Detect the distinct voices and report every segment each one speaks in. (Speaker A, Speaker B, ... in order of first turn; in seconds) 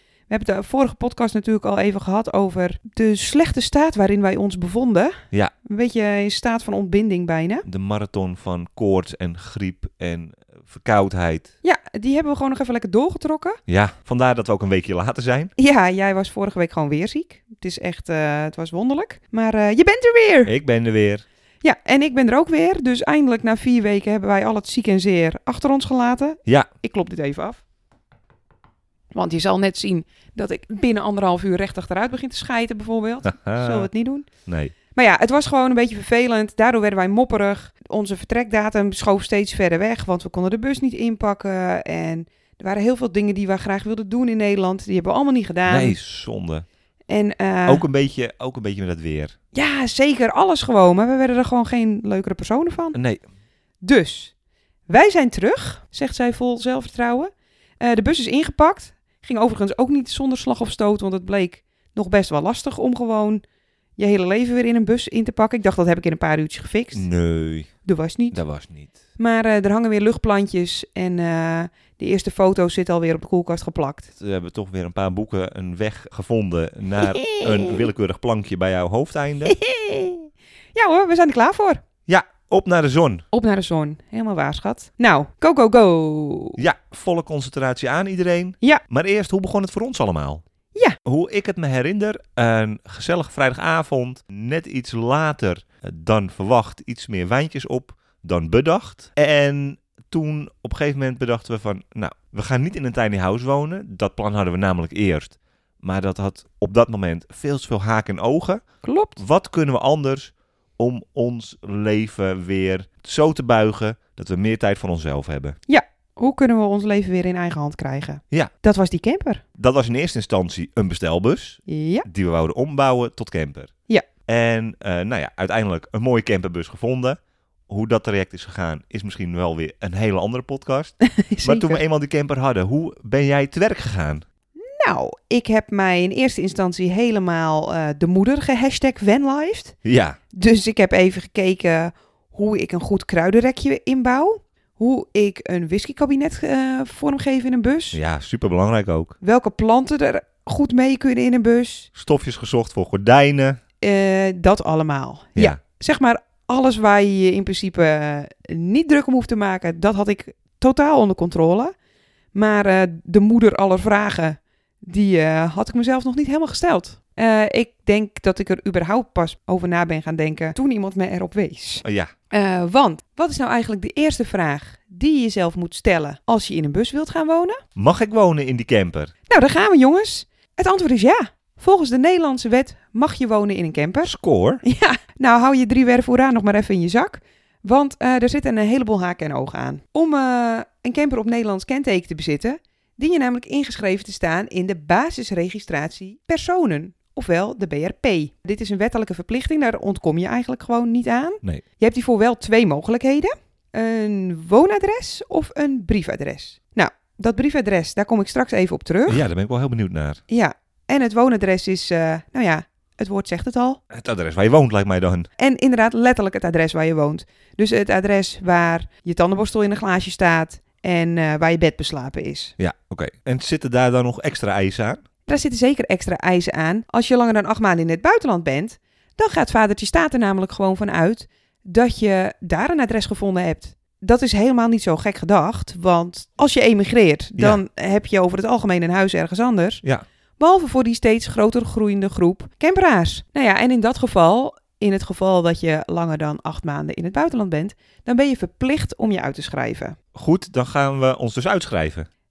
Speaker A: 0.3-7.7, 11.6-13.6, 15.6-20.5, 21.6-27.6, 29.1-34.3, 34.9-46.0, 47.1-47.8, 49.5-53.0, 53.8-54.3, 54.9-63.4, 64.0-67.1, 67.8-68.4, 69.2-74.1, 77.0-77.8, 79.4-81.8, 83.3-86.6, 108.8-109.2, 115.7-119.4, 121.7-122.1, 131.0-131.8, 134.6-139.8, 140.3-148.0, 149.2-151.9, 153.8-161.7, 162.3-177.6, 179.3-209.2, 210.3-213.8, 215.4-222.6, 225.3-239.8, 240.4-250.0
Speaker B: 7.7-11.5, 13.7-15.5, 20.5-21.2, 33.2-33.9, 34.5-34.7, 45.7-46.7, 47.7-49.4, 53.0-53.2, 66.9-67.7, 68.3-68.9, 74.2-79.6, 82.1-83.2, 86.6-90.4, 91.0-108.6, 109.2-115.6, 119.6-123.7, 124.3-134.2, 139.8-140.2, 147.9-149.2, 151.9-153.6, 171.8-172.1, 177.8-179.1, 184.0-184.6, 209.1-210.2, 213.9-215.3, 222.6-225.0, 250.2-252.1